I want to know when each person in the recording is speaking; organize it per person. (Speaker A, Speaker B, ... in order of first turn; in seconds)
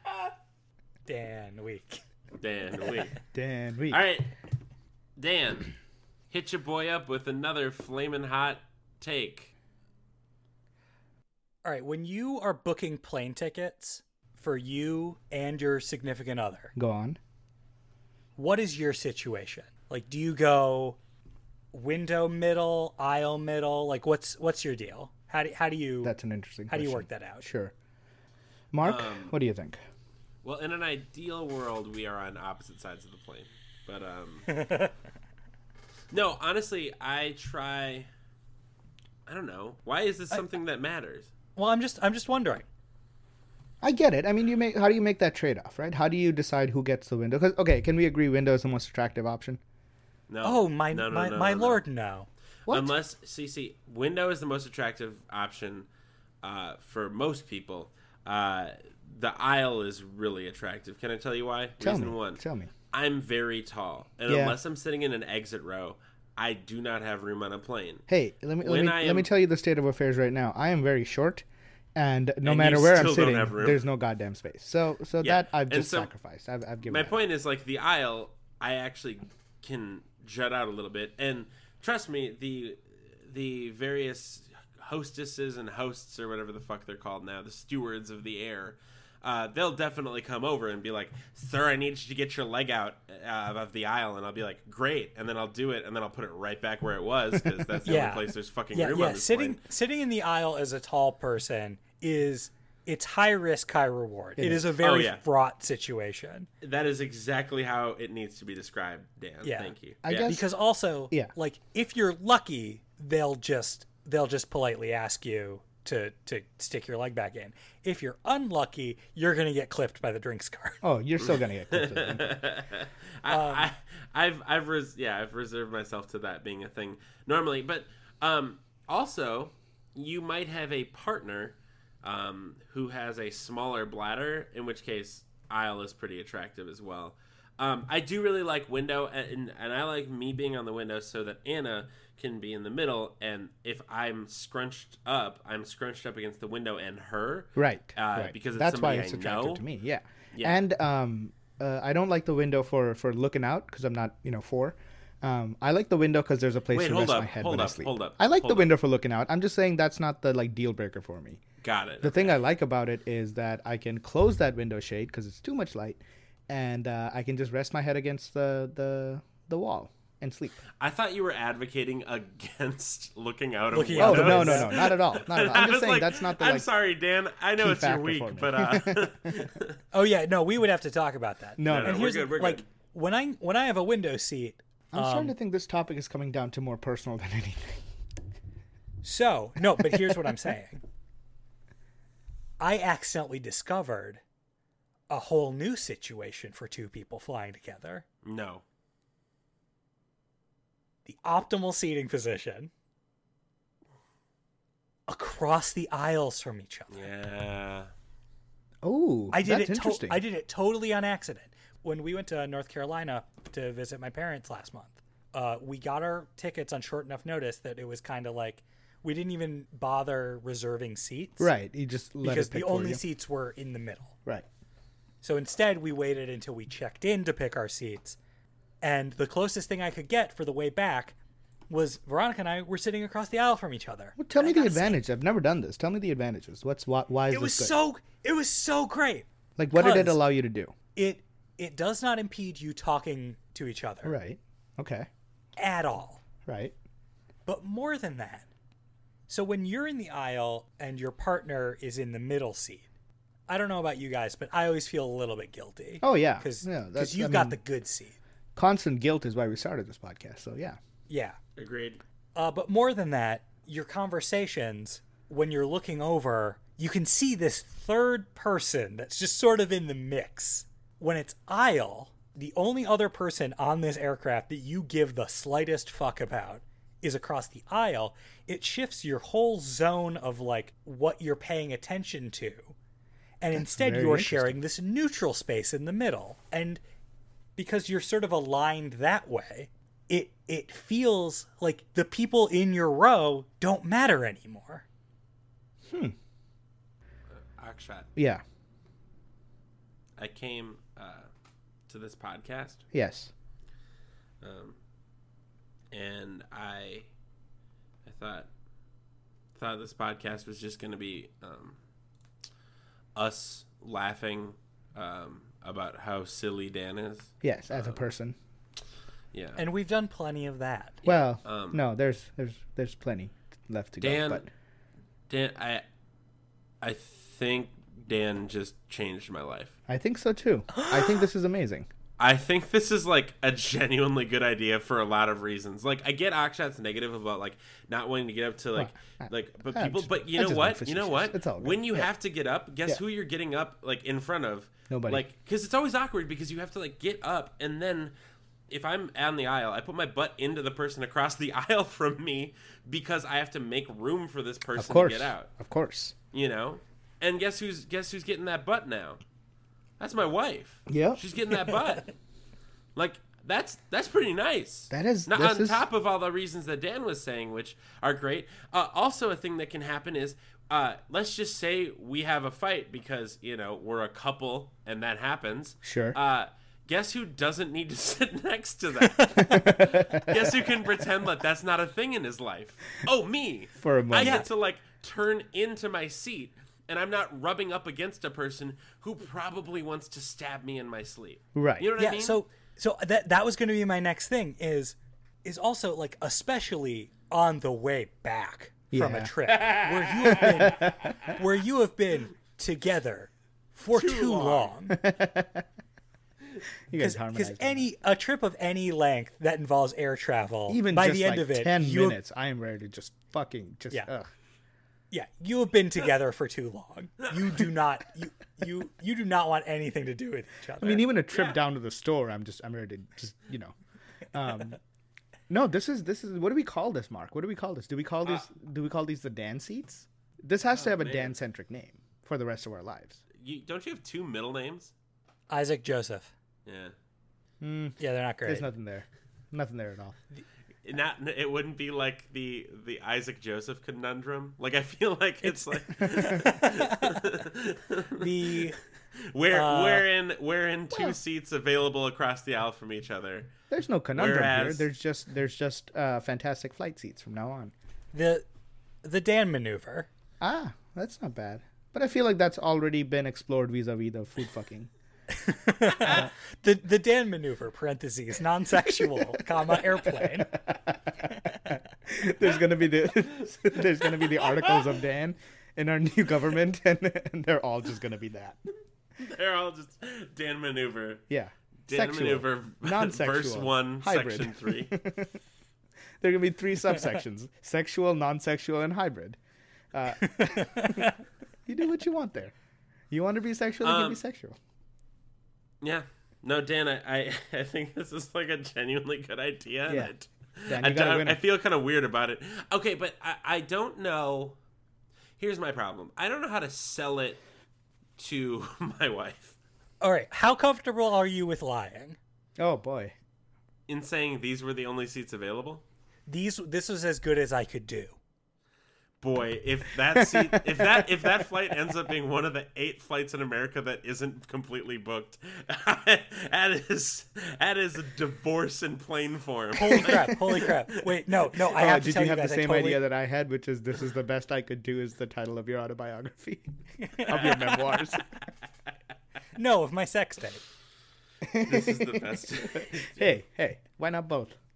Speaker A: 1.1-2.0, 11.6-16.7, 18.4-21.0, 21.7-26.1, 26.7-27.5, 34.5-34.9, 41.5-42.6, 50.4-52.3, 97.8-106.5, 109.4-109.7, 110.2-120.8, 123.3-123.7, 173.7-174.9, 179.9-185.3, 189.0-190.8, 192.6-194.2, 195.1-198.0, 201.1-202.7, 205.1-207.1, 209.3-221.5, 222.2-224.1, 225.2-228.2, 228.8-231.1, 231.7-235.0, 237.3-240.2, 240.9-244.1, 245.6-246.2, 247.4-248.4, 249.3-252.8, 253.5-258.1, 261.1-261.4, 262.3-282.7, 283.4-286.8, 287.6-294.8, 319.6-321.0, 330.7-331.2, 379.1-379.6, 384.2-384.4, 392.0-405.0, 407.0-412.2, 415.1-421.0, 435.5-436.3, 438.0-438.7, 445.4-447.2, 448.2-448.8, 449.5-450.1, 458.1-458.4, 459.0-460.1, 465.4-470.5, 490.4-491.1, 510.0-512.2, 516.3-518.1, 529.8-533.0, 537.0-537.8, 539.5-540.6
Speaker B: 2.4-3.1, 3.9-4.3, 5.2-5.7, 6.3-9.5, 28.8-29.3, 30.4-34.5, 36.1-38.1, 39.3-41.3, 50.3-51.8, 52.7-55.9, 56.4-68.0, 68.6-69.3, 72.4-73.8, 75.2-76.1, 76.9-99.6, 104.8-105.2, 106.6-110.4, 121.3-149.6, 150.3-150.6, 156.7-158.7, 161.6-162.4, 170.8-179.8, 181.6-182.6, 198.2-198.6, 206.9-207.9, 261.6-262.0, 297.3-298.1, 300.2-301.3, 301.9-302.8, 304.4-304.8, 305.9-307.1, 308.0-308.5, 309.5-311.8, 313.1-318.0, 319.3-319.6, 321.1-321.8, 324.0-324.4, 325.3-325.8, 326.8-329.7, 332.2-348.1, 348.7-355.5, 356.3-359.2, 360.0-362.1, 362.9-392.4, 399.5-401.1, 403.9-404.7, 430.7-431.4, 433.3-434.9, 436.6-436.9, 440.8-448.6, 449.2-453.5, 454.1-454.9, 479.2-481.2, 481.9-484.9, 493.8-494.2, 495.8-504.6, 505.4-507.4, 508.2-509.6, 513.9-515.8, 519.2-530.4, 541.6-543.3
Speaker C: 3.3-4.0, 16.7-17.2, 26.0-27.7, 28.7-29.8, 43.8-49.6, 52.7-52.9, 61.8-62.7, 64.3-64.6, 68.1-77.2, 104.4-104.7, 110.0-110.5, 120.8-122.4, 147.6-161.4, 162.0-170.6, 174.0-176.7, 177.6-179.3, 181.6-182.1, 184.9-187.8, 189.8-190.1, 208.8-210.2, 221.4-223.0, 234.2-237.7, 239.6-240.7, 244.0-245.1, 246.5-246.7, 256.0-257.6, 258.6-260.8, 283.5-284.6, 295.9-296.1, 298.1-298.4, 302.9-303.3, 317.4-318.3, 321.0-324.5, 329.9-331.9, 338.8-342.1, 344.9-345.2, 354.8-356.1, 360.9-361.2, 364.9-365.8, 375.8-376.1, 379.4-380.6, 383.8-384.4, 391.5-391.9, 398.9-399.3, 404.9-405.6, 406.9-407.9, 410.7-414.3, 420.8-423.7, 424.3-424.8, 425.5-433.2, 437.6-440.1, 453.7-457.7, 460.4-464.9, 468.9-469.5, 470.1-478.6, 481.3-485.4, 486.2-489.4, 489.9-491.1, 491.7-492.5, 493.1-494.6, 499.9-500.1, 500.7-501.4, 512.6-513.1, 520.2-521.2, 530.0-530.5, 531.7-538.2, 541.4-544.5